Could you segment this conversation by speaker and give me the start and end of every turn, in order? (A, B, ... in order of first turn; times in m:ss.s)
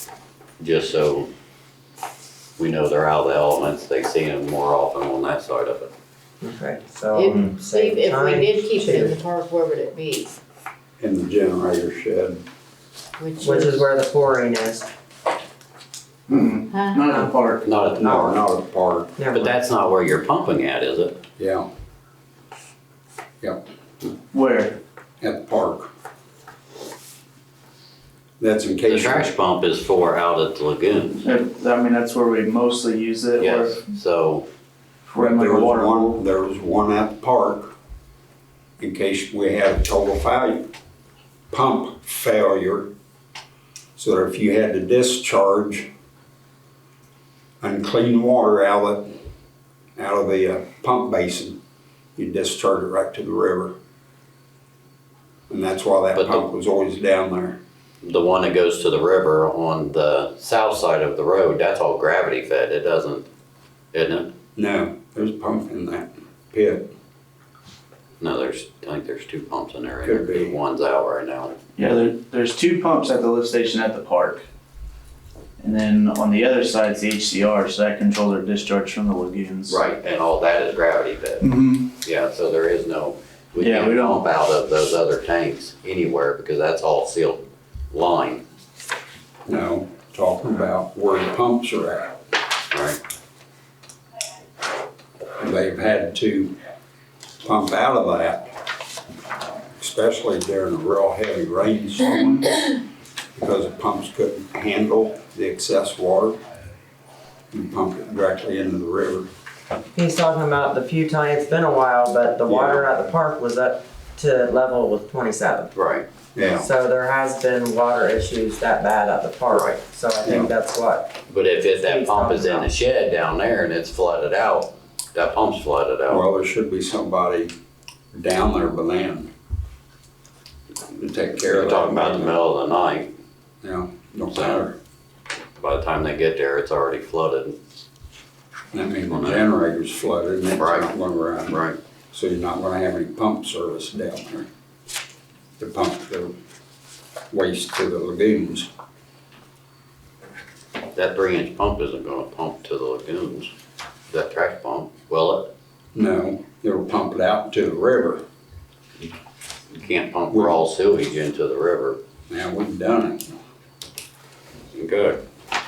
0:00.6-0:01.3 A
0:02.6-0:05.9 A
0:06.4-0:09.2 B
0:07.1-0:10.4 C
0:11.0-0:12.4 D
0:13.2-0:13.8 C
0:13.4-0:14.9 B
0:16.3-0:17.6 E
0:16.7-0:17.0 C
0:17.6-0:18.4 A
0:18.0-0:19.1 D
0:18.0-0:18.4 B
0:19.2-0:19.6 B
0:19.3-0:21.2 A
0:21.4-0:21.7 D
0:23.4-0:23.7 D
0:24.3-0:24.8 E
0:25.2-0:25.9 D
0:28.4-0:29.3 D
0:28.9-0:31.3 A
0:31.2-0:33.8 E
0:33.4-0:34.5 A
0:35.1-0:36.2 E
0:35.2-0:37.7 D
0:38.8-0:40.7 D
0:41.5-0:42.9 D
0:44.0-0:45.9 D
0:47.6-0:49.1 D
0:50.0-0:51.6 D
0:52.2-0:53.7 D
0:55.5-0:57.6 D
0:56.2-0:56.4 A
0:58.0-1:03.3 A
1:03.9-1:04.3 A
1:04.6-1:06.9 D
1:08.2-1:11.6 A
1:10.0-1:10.6 D
1:11.8-1:14.4 E
1:15.6-1:19.8 E
1:19.7-1:28.4 A
1:21.4-1:21.9 E
1:23.6-1:24.2 E
1:29.5-1:32.1 D
1:32.7-1:33.0 A
1:35.4-1:36.5 D
1:37.4-1:38.5 D
1:39.8-1:42.5 D
1:43.4-1:46.4 D
1:47.5-1:49.3 D
1:49.9-1:55.7 B
1:52.5-1:52.9 D
1:55.7-1:56.1 A
1:56.4-1:56.7 D
1:56.6-2:01.2 B
1:59.5-1:59.8 A
2:00.2-2:00.5 D
2:01.3-2:06.2 A
2:01.8-2:02.7 B
2:06.1-2:07.5 D
2:08.1-2:09.3 D
2:10.9-2:12.4 D
2:11.5-2:13.1 A
2:13.6-2:14.8 D
2:14.3-2:14.6 A
2:15.6-2:17.6 A
2:18.7-2:21.6 D
2:19.1-2:19.5 A
2:20.6-2:20.9 A
2:21.5-2:21.8 A
2:22.1-2:24.5 D
2:25.6-2:26.3 D
2:27.3-2:28.7 D
2:31.0-2:33.5 A
2:34.1-2:35.5 A
2:36.0-2:38.2 D
2:39.7-2:42.0 A
2:42.3-2:43.4 D
2:44.7-2:45.2 A